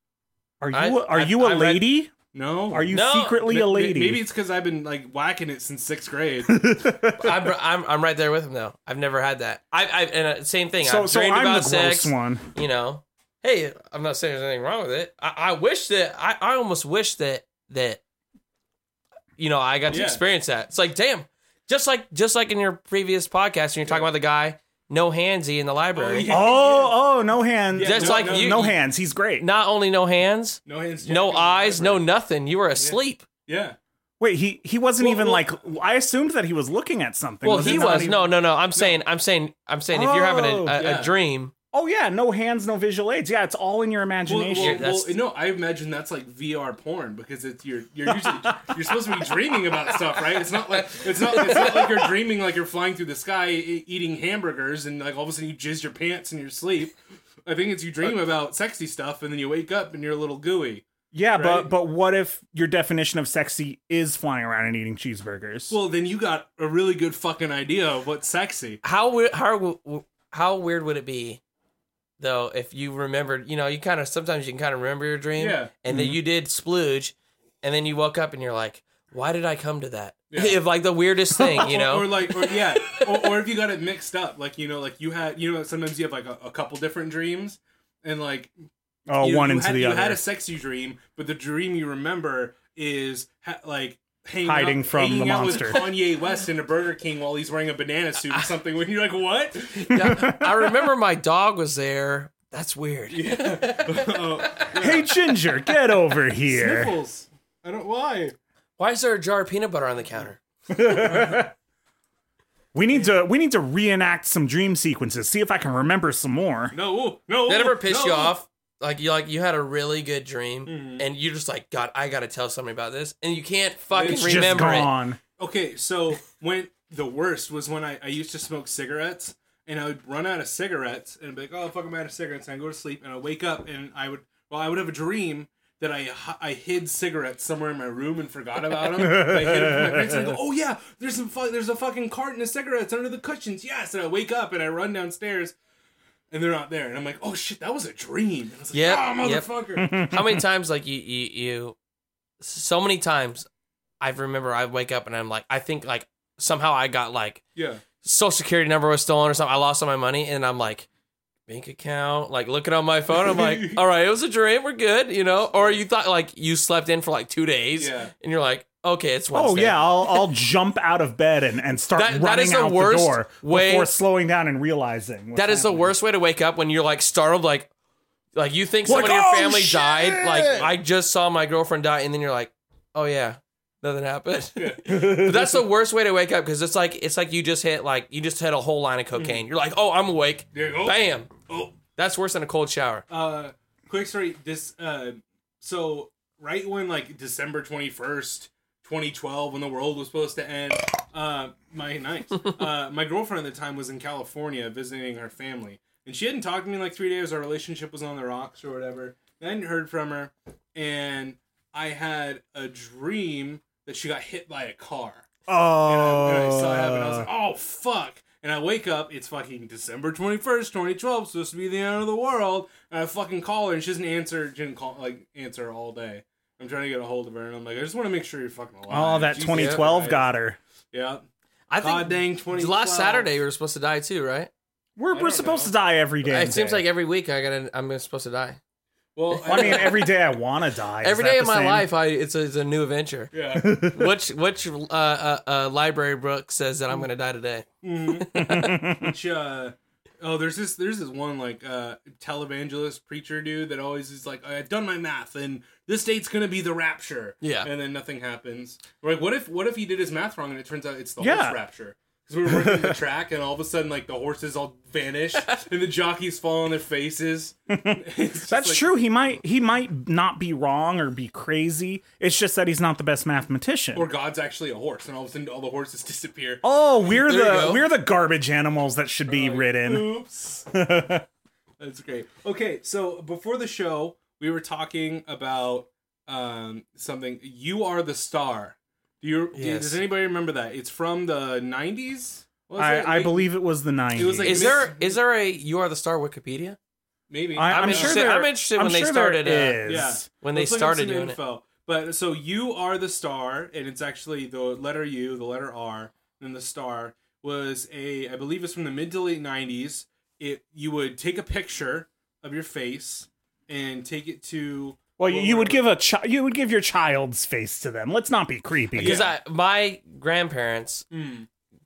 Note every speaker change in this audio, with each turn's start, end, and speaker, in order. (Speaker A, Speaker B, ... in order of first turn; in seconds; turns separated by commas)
Speaker A: 0.6-2.1, Speaker B: 0.7-1.9, Speaker C: 2.3-6.6, Speaker A: 2.7-4.2, Speaker B: 2.9-3.4, Speaker A: 6.4-7.5, Speaker B: 7.2-18.0, Speaker A: 10.8-12.5, Speaker B: 19.4-26.3, Speaker C: 19.9-20.2, Speaker C: 25.9-27.0, Speaker A: 26.3-29.4, Speaker C: 27.7-28.7, Speaker B: 27.8-28.8, Speaker B: 29.4-33.2, Speaker C: 30.6-32.0, Speaker C: 32.8-33.8, Speaker A: 34.2-38.1, Speaker C: 35.0-35.5, Speaker B: 37.4-41.5, Speaker C: 37.5-39.0, Speaker A: 39.9-40.8, Speaker C: 40.8-41.1, Speaker A: 41.7-44.9, Speaker C: 44.2-61.7, Speaker B: 44.5-45.1, Speaker A: 48.1-49.4, Speaker A: 51.4-52.1, Speaker A: 61.1-65.8, Speaker C: 65.7-68.8, Speaker B: 68.8-71.4, Speaker B: 72.2-83.0, Speaker C: 75.4-75.7, Speaker A: 75.9-76.2, Speaker C: 80.3-80.6, Speaker A: 81.4-81.7, Speaker C: 81.6-88.5, Speaker A: 89.1-90.2, Speaker C: 89.2-99.7, Speaker A: 94.4-95.9, Speaker B: 99.7-104.8, Speaker A: 99.9-100.8, Speaker C: 103.1-105.1, Speaker A: 104.8-106.9, Speaker C: 106.5-108.3, Speaker B: 108.8-110.4, Speaker A: 110.7-111.5, Speaker C: 111.1-111.3, Speaker A: 112.7-116.7, Speaker C: 112.9-113.2, Speaker C: 116.7-118.3, Speaker B: 117.5-124.9, Speaker C: 120.7-121.0, Speaker C: 123.9-124.8, Speaker A: 124.0-125.2, Speaker C: 125.4-145.5, Speaker A: 138.8-140.4, Speaker C: 146.3-149.9, Speaker B: 148.7-149.5, Speaker A: 149.8-150.4, Speaker B: 150.0-151.8, Speaker B: 152.4-153.5, Speaker B: 154.0-157.4, Speaker C: 157.5-157.8, Speaker B: 158.0-160.9, Speaker B: 161.5-170.2, Speaker C: 163.1-163.8, Speaker C: 167.7-168.1, Speaker A: 169.3-175.9, Speaker B: 171.9-173.9, Speaker B: 175.3-177.7, Speaker B: 178.3-191.3, Speaker A: 178.8-180.7, Speaker C: 180.5-180.8, Speaker C: 184.6-184.9, Speaker A: 184.8-185.6, Speaker C: 189.1-189.4, Speaker C: 190.5-191.8, Speaker B: 191.9-193.0, Speaker C: 193.1-215.2, Speaker A: 215.5-217.3, Speaker C: 215.8-230.3, Speaker A: 228.9-230.6, Speaker B: 229.5-229.8, Speaker C: 230.9-231.2, Speaker B: 231.7-234.5, Speaker C: 231.8-233.3, Speaker A: 235.0-236.8, Speaker C: 235.1-235.7, Speaker B: 236.2-238.6, Speaker C: 239.2-240.1, Speaker B: 239.3-239.9, Speaker A: 239.4-241.9, Speaker B: 241.0-243.3, Speaker C: 243.3-243.7, Speaker A: 243.5-244.1, Speaker B: 243.8-248.8, Speaker C: 247.8-268.8, Speaker A: 248.3-249.1, Speaker B: 257.4-257.7, Speaker A: 261.2-261.6, Speaker A: 262.5-263.0, Speaker A: 267.7-274.1, Speaker C: 273.9-277.8, Speaker A: 276.6-280.2, Speaker B: 277.1-277.9, Speaker C: 279.3-280.6, Speaker A: 280.7-281.2, Speaker C: 281.8-293.4, Speaker B: 289.5-290.0, Speaker A: 292.8-294.8, Speaker C: 294.1-295.2, Speaker B: 294.4-296.8, Speaker C: 297.3-298.2, Speaker A: 297.6-300.2, Speaker B: 297.7-299.9, Speaker C: 299.8-315.8, Speaker B: 300.4-301.4, Speaker A: 315.2-319.2, Speaker C: 318.9-319.3, Speaker B: 319.0-321.0, Speaker C: 321.1-321.5